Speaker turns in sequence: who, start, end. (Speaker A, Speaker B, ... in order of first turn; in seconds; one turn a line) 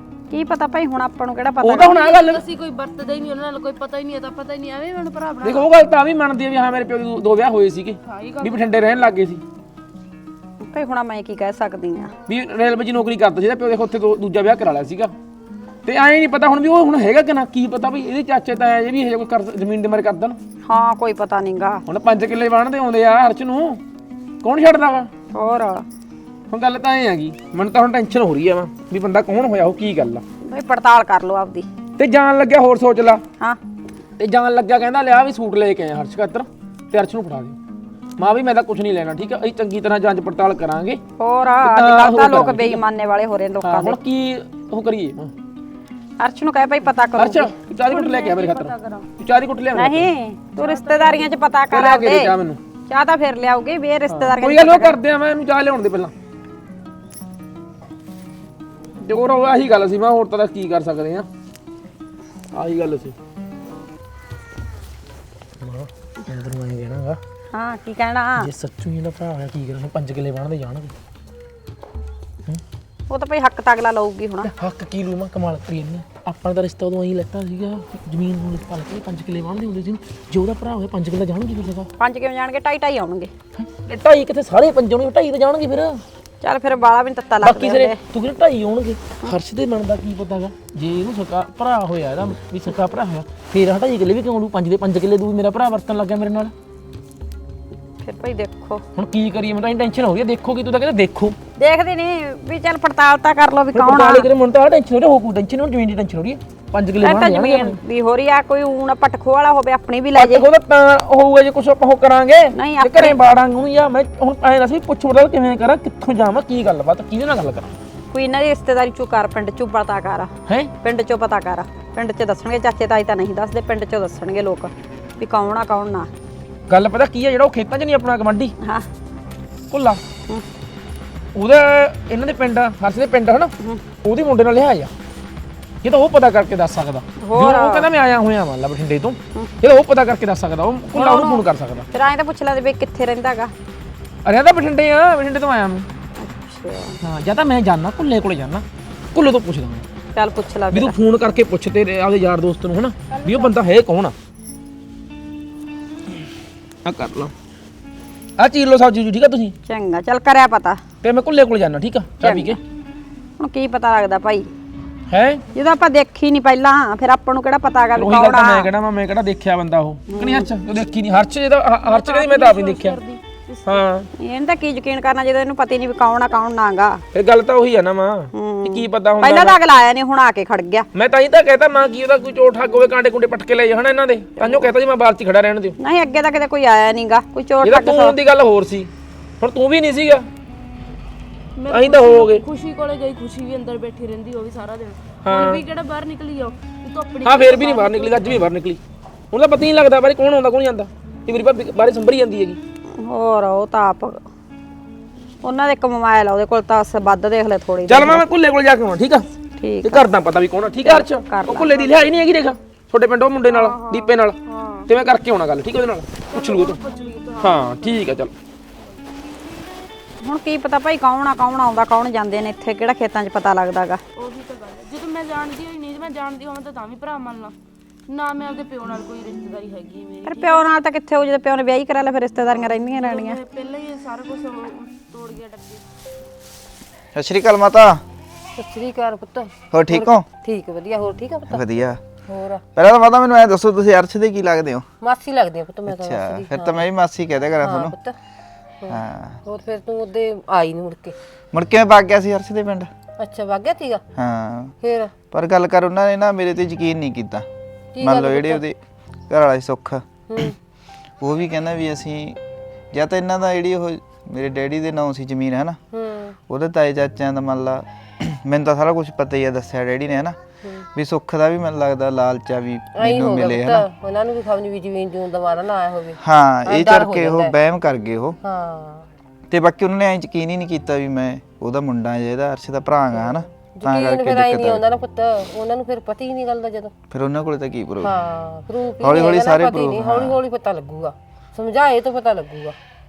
Speaker A: 0.3-2.4
Speaker B: 2.0-5.7
Speaker C: 5.4-9.4
Speaker B: 8.0-8.7
Speaker A: 10.6-12.1
Speaker C: 12.3-15.1
Speaker C: 15.8-20.4
Speaker A: 20.6-21.8
Speaker C: 21.9-23.8
Speaker C: 24.4-25.1
Speaker A: 25.3-25.9
Speaker C: 26.5-30.2
Speaker A: 30.4-31.7
Speaker C: 32.0-33.2
Speaker C: 34.2-37.6
Speaker C: 38.2-41.0
Speaker A: 41.2-44.0
Speaker C: 41.7-42.8
Speaker C: 43.6-45.3
Speaker A: 46.2-47.5
Speaker C: 47.2-50.0
Speaker B: 47.7-49.1
Speaker A: 49.7-52.3
Speaker B: 50.5-51.4
Speaker C: 51.7-52.6
Speaker A: 52.9-55.0
Speaker C: 54.1-56.1
Speaker C: 59.0-61.3
Speaker C: 62.5-63.1
Speaker C: 65.6-67.2
Speaker A: 67.5-68.5
Speaker C: 68.4-70.9
Speaker A: 73.1-74.5
Speaker C: 74.5-81.9
Speaker A: 82.0-83.3
Speaker C: 83.6-86.0
Speaker A: 86.4-88.0
Speaker C: 87.4-96.5
Speaker A: 98.0-98.8
Speaker C: 98.9-101.4
Speaker A: 101.6-104.3
Speaker C: 103.7-107.7
Speaker A: 107.0-110.5
Speaker C: 110.2-117.7
Speaker A: 112.5-113.2
Speaker A: 118.1-120.3
Speaker C: 120.5-120.7
Speaker A: 120.8-126.1
Speaker C: 126.7-128.5
Speaker A: 128.6-128.8
Speaker C: 129.7-130.0
Speaker C: 131.3-133.5
Speaker C: 134.0-134.9
Speaker C: 135.8-141.9
Speaker A: 137.2-137.9
Speaker A: 140.9-143.5
Speaker C: 144.2-145.9
Speaker A: 146.2-147.0
Speaker C: 147.0-149.9
Speaker A: 150.1-151.0
Speaker C: 150.7-154.2
Speaker A: 153.2-153.5
Speaker C: 156.8-157.3
Speaker C: 158.4-159.6
Speaker A: 159.6-160.8
Speaker C: 161.0-162.6
Speaker A: 162.2-162.6
Speaker A: 163.4-164.5
Speaker C: 165.1-165.4
Speaker A: 165.5-168.7
Speaker C: 168.0-173.0
Speaker A: 170.1-170.5
Speaker B: 171.8-173.8
Speaker C: 173.6-174.1
Speaker A: 174.2-177.0
Speaker C: 177.1-179.5
Speaker A: 178.3-180.8
Speaker C: 180.9-185.8
Speaker A: 184.4-184.7
Speaker A: 185.8-188.2
Speaker C: 187.6-190.3
Speaker B: 191.6-198.5
Speaker C: 191.7-192.4
Speaker C: 195.2-195.6
Speaker C: 197.2-198.8
Speaker C: 199.3-202.6
Speaker A: 203.0-204.2
Speaker A: 205.4-208.2
Speaker C: 207.9-209.3
Speaker A: 209.6-210.1
Speaker C: 209.9-214.4
Speaker A: 210.8-211.9
Speaker B: 211.9-212.2
Speaker B: 213.5-214.9
Speaker C: 214.9-216.8
Speaker B: 216.3-218.2
Speaker C: 217.4-218.3
Speaker A: 220.2-224.0
Speaker B: 224.2-227.5
Speaker B: 228.1-230.7
Speaker A: 230.2-233.4
Speaker B: 232.5-235.8
Speaker D: 237.1-238.0
Speaker E: 238.6-241.6
Speaker D: 239.7-240.3
Speaker D: 241.5-242.0
Speaker E: 242.3-242.6
Speaker D: 242.7-244.8
Speaker E: 245.0-246.8
Speaker D: 245.8-247.9
Speaker E: 247.6-248.2
Speaker E: 248.8-251.2
Speaker D: 248.9-249.4
Speaker D: 251.5-252.9
Speaker E: 253.2-254.0
Speaker D: 254.2-254.7
Speaker E: 254.8-255.1
Speaker D: 255.3-257.4
Speaker E: 257.9-258.6
Speaker D: 258.0-258.8
Speaker D: 259.3-260.0
Speaker E: 260.3-260.5
Speaker D: 261.2-262.4
Speaker D: 262.9-265.8
Speaker E: 265.9-266.4
Speaker D: 266.5-270.4
Speaker D: 270.9-273.9
Speaker E: 273.0-277.5
Speaker D: 276.2-278.4
Speaker E: 278.4-279.1
Speaker D: 279.5-284.8
Speaker E: 283.1-286.9
Speaker D: 287.1-288.1
Speaker E: 288.0-292.8
Speaker D: 289.0-290.4